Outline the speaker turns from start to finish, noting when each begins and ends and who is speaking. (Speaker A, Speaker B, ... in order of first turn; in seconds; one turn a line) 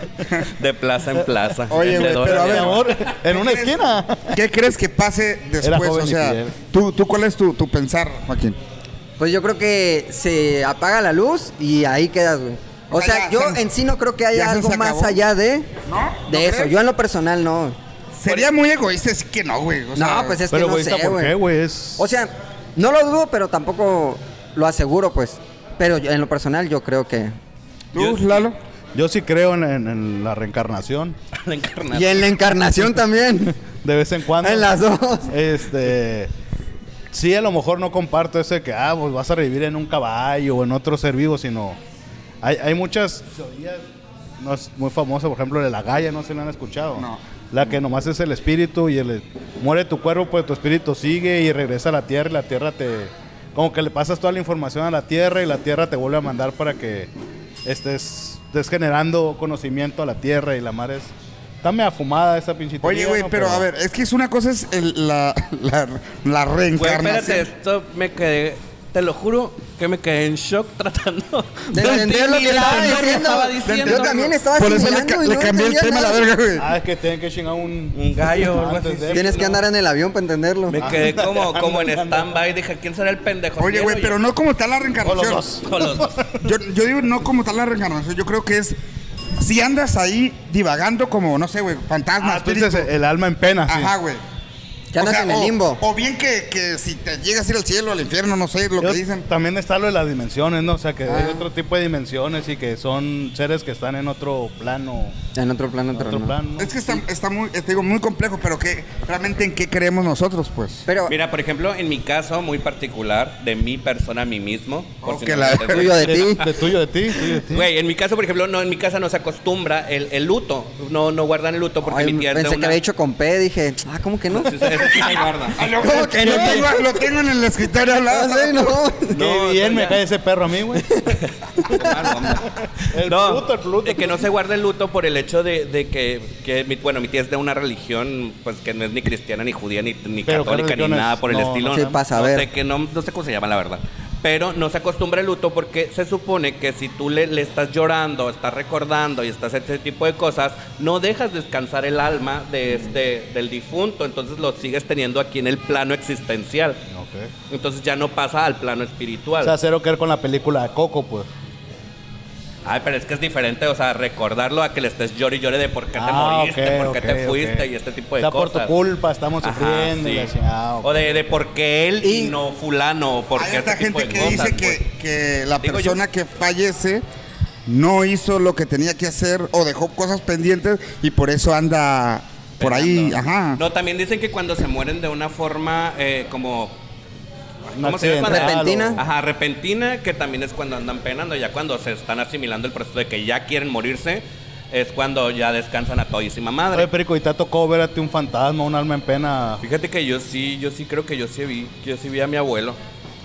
Speaker A: 0.6-2.9
Speaker B: 1.7-3.8
Speaker C: 1.8-4.4
Speaker B: 4.3-8.6
Speaker C: 5.6-6.5
Speaker D: 9.2-15.7
Speaker B: 12.9-13.6
Speaker B: 14.3-15.2
Speaker B: 15.9-16.7
Speaker D: 16.3-17.8
Speaker B: 18.2-20.4
Speaker D: 20.0-21.4
Speaker C: 20.5-22.1
Speaker D: 22.0-27.3
Speaker B: 27.9-28.6
Speaker A: 27.9-28.5
Speaker C: 28.9-31.2
Speaker A: 31.3-32.3
Speaker D: 31.9-33.6
Speaker C: 33.8-34.8
Speaker D: 34.4-35.3
Speaker C: 35.3-36.3
Speaker C: 37.1-41.8
Speaker C: 42.4-43.9
Speaker C: 44.4-57.1
Speaker B: 47.0-47.2
Speaker C: 57.6-61.1
Speaker C: 61.6-63.7
Speaker B: 62.8-67.5
Speaker A: 66.8-74.2
Speaker D: 71.7-76.3
Speaker B: 72.5-76.7
Speaker C: 76.6-79.3
Speaker A: 77.9-79.6
Speaker D: 79.1-80.8
Speaker A: 80.7-84.2
Speaker C: 80.8-82.3
Speaker B: 83.6-85.5
Speaker C: 85.0-86.5
Speaker A: 85.6-86.1
Speaker B: 86.4-88.8
Speaker B: 89.4-92.9
Speaker C: 92.2-93.9
Speaker B: 93.5-94.2
Speaker D: 94.9-95.8
Speaker B: 95.0-99.2
Speaker C: 98.8-105.2
Speaker D: 101.1-101.5
Speaker D: 105.3-106.4
Speaker C: 105.9-106.7
Speaker B: 106.6-110.9
Speaker D: 110.9-111.1
Speaker A: 111.1-116.5
Speaker B: 115.0-116.0
Speaker D: 115.7-116.4
Speaker C: 116.0-117.7
Speaker A: 117.4-122.8
Speaker D: 121.9-125.0
Speaker A: 124.3-125.7
Speaker B: 125.6-128.8
Speaker D: 125.8-126.8
Speaker C: 125.9-126.7
Speaker D: 128.1-129.2
Speaker C: 129.1-130.9
Speaker A: 129.1-130.0
Speaker A: 131.1-156.8
Speaker C: 132.9-134.3
Speaker C: 140.3-142.0
Speaker D: 141.7-142.5
Speaker C: 156.9-157.3
Speaker A: 157.5-159.6
Speaker C: 159.4-161.3
Speaker A: 162.6-168.8
Speaker C: 165.9-167.7
Speaker C: 168.2-170.9
Speaker A: 169.4-174.8
Speaker D: 172.0-172.3
Speaker B: 173.4-177.0
Speaker A: 175.6-176.0
Speaker B: 177.7-183.6
Speaker A: 182.6-186.7
Speaker A: 187.7-196.9
Speaker C: 187.8-189.0
Speaker D: 188.3-189.0
Speaker C: 196.7-199.6
Speaker A: 199.6-202.8